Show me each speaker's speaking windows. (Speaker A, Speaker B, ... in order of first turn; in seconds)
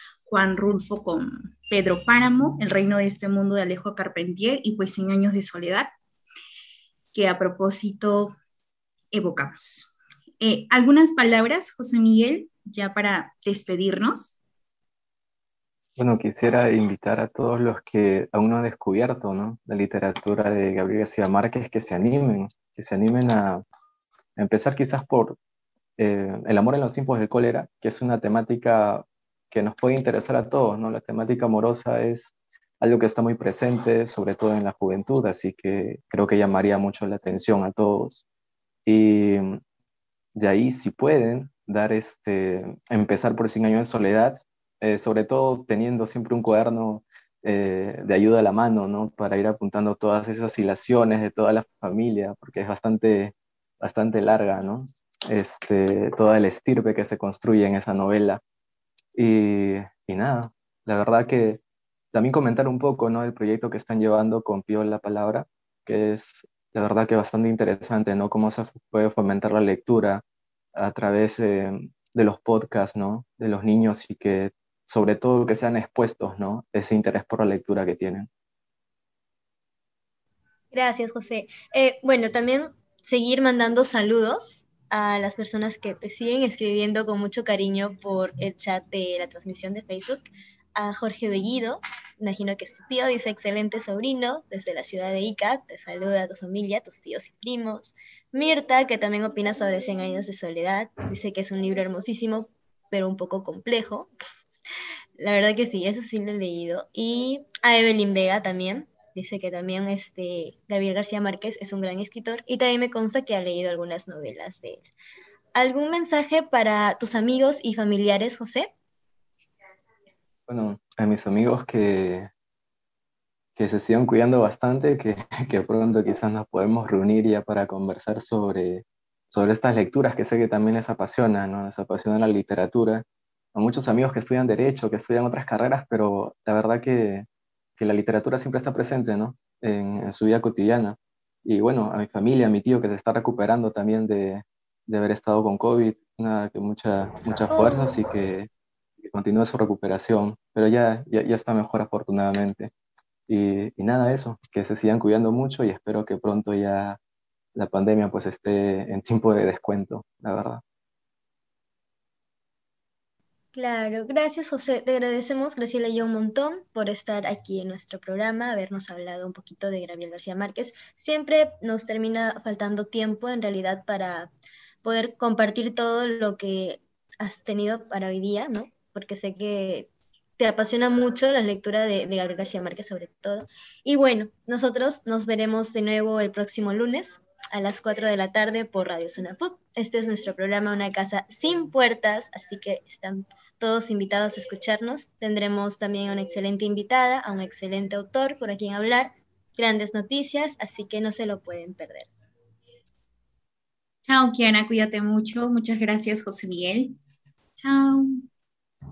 Speaker A: 0.3-5.9, 7.1-8.3, 9.1-14.3, 204.1-207.0, 207.6-208.3
Speaker B: 16.0-23.6, 24.4-25.4, 26.0-38.3, 38.9-39.6, 40.4-58.4, 59.1-61.6, 62.1-70.2, 70.8-78.3, 120.5-122.3, 123.6-148.5, 149.0-152.7, 153.3-157.0, 157.6-160.6
Speaker C: 80.7-90.2, 90.8-104.1, 105.2-114.9, 115.5-118.7, 147.5-147.9, 163.6-174.3, 174.8-202.1